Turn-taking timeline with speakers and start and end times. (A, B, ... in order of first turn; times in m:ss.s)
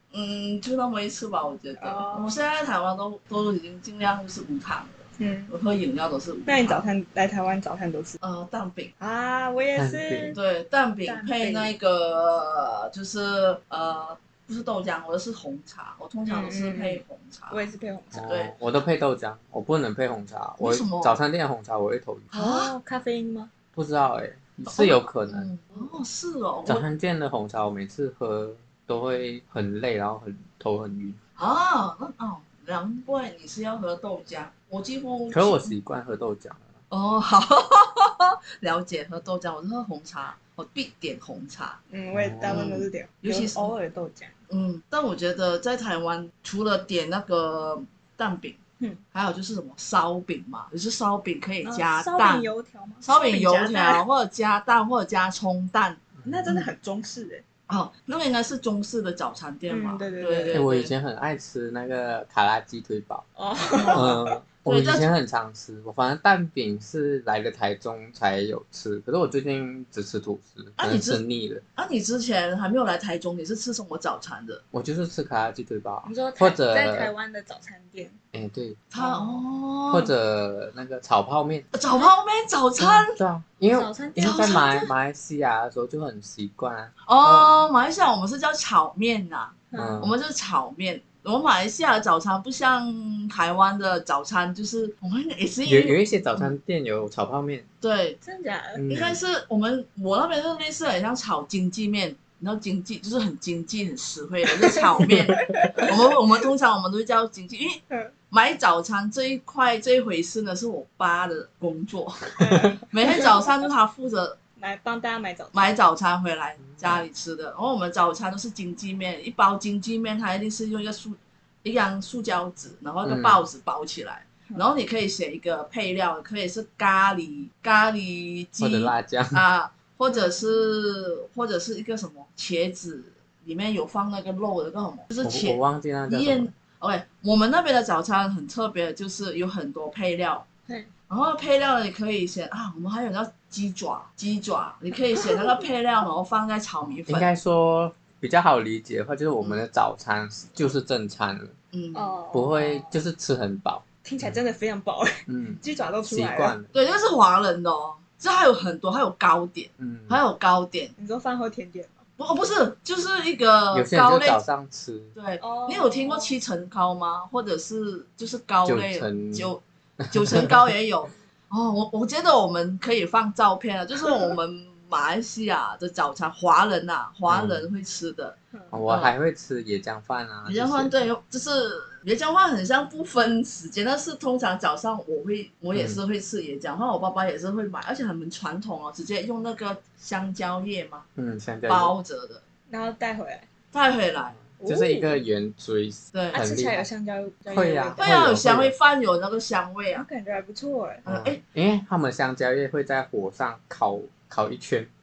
0:00.1-0:06.8 A
0:01.8-0:02.4 B
0:05.2-0:05.5 B
0:06.5-0:08.2 B
0:08.2-0:08.9 A
0:09.0-0:10.4 B
0:09.7-0:10.4 C
0:10.3-0:17.6 A
0:11.0-0:11.7 B
0:16.2-0:18.3 B
0:18.1-0:22.3 C
0:18.3-0:18.5 A
0:20.6-0:21.2 A
0:22.3-0:22.7 A
0:22.3-0:23.5 B
0:23.7-0:25.5 C
0:24.7-0:26.9 A
0:26.6-0:31.2 C
0:31.4-0:35.7 A
0:35.3-0:36.6 C
0:36.9-0:41.8 A
0:41.9-0:44.3 B
0:42.1-0:42.7 C
0:42.5-0:43.7 A
0:44.5-0:48.6 A
0:49.1-0:52.5 A
0:51.6-0:54.0 B
0:53.0-0:56.7 A
0:56.2-0:56.6 C
0:56.2-0:57.4 B
0:57.7-1:00.9 A
0:59.7-1:00.6 B
1:00.5-1:03.2 C
1:03.4-1:04.2 B
1:03.7-1:05.1 A
1:03.9-1:11.6 C
1:10.8-1:11.2 A
1:11.8-1:14.6 A
1:14.7-1:17.1 C
1:16.0-1:18.2 B
1:18.3-1:18.8 C
1:18.9-1:20.1 A
1:19.0-1:19.4 B
1:19.9-1:21.7 C
1:21.7-1:23.2 A
1:22.8-1:27.5 C
1:23.7-1:24.7 B
1:24.2-1:24.9 A
1:27.0-1:36.5 A
1:29.7-1:30.0 B
1:29.7-1:30.1 C
1:35.6-1:37.6 C
1:37.8-1:38.2 A
1:38.2-1:38.8 B
1:38.7-1:39.2 C
1:38.9-1:54.4 A
1:44.6-1:46.0 B
1:52.4-1:53.4 B
1:54.6-1:55.7 B
1:55.5-2:20.5 A
1:56.7-1:57.0 C
2:03.0-2:03.4 C
2:08.6-2:09.4 C
2:10.1-2:10.4 B
2:15.2-2:16.5 C
2:21.1-2:27.3 A
2:25.2-2:25.5 B
2:26.9-2:31.6 C
2:31.7-2:32.1 A
2:31.9-2:32.9 B
2:32.3-2:34.4 C
2:34.0-2:36.5 B
2:35.3-2:36.7 C
2:36.7-2:40.9 A
2:39.8-2:40.2 C
2:41.0-2:42.0 B
2:42.2-2:44.4 A
2:43.7-2:45.1 C
2:45.1-2:59.1 A
2:45.4-2:46.4 B
2:48.6-2:50.5 C
2:57.3-2:57.6 C
2:58.5-2:58.8 B
2:58.7-3:00.9 C
3:00.4-3:11.1 A
3:05.7-3:06.0 C
3:11.2-3:11.9 C
3:11.7-3:12.4 A
3:12.7-3:13.5 B
3:13.7-3:14.4 A
3:14.4-3:16.8 C
3:14.6-3:15.2 B
3:16.1-3:16.4 A
3:16.3-3:18.0 B
3:17.5-3:18.7 C
3:18.0-3:20.0 A
3:19.9-3:21.0 B
3:21.0-3:21.4 A
3:21.1-3:24.9 C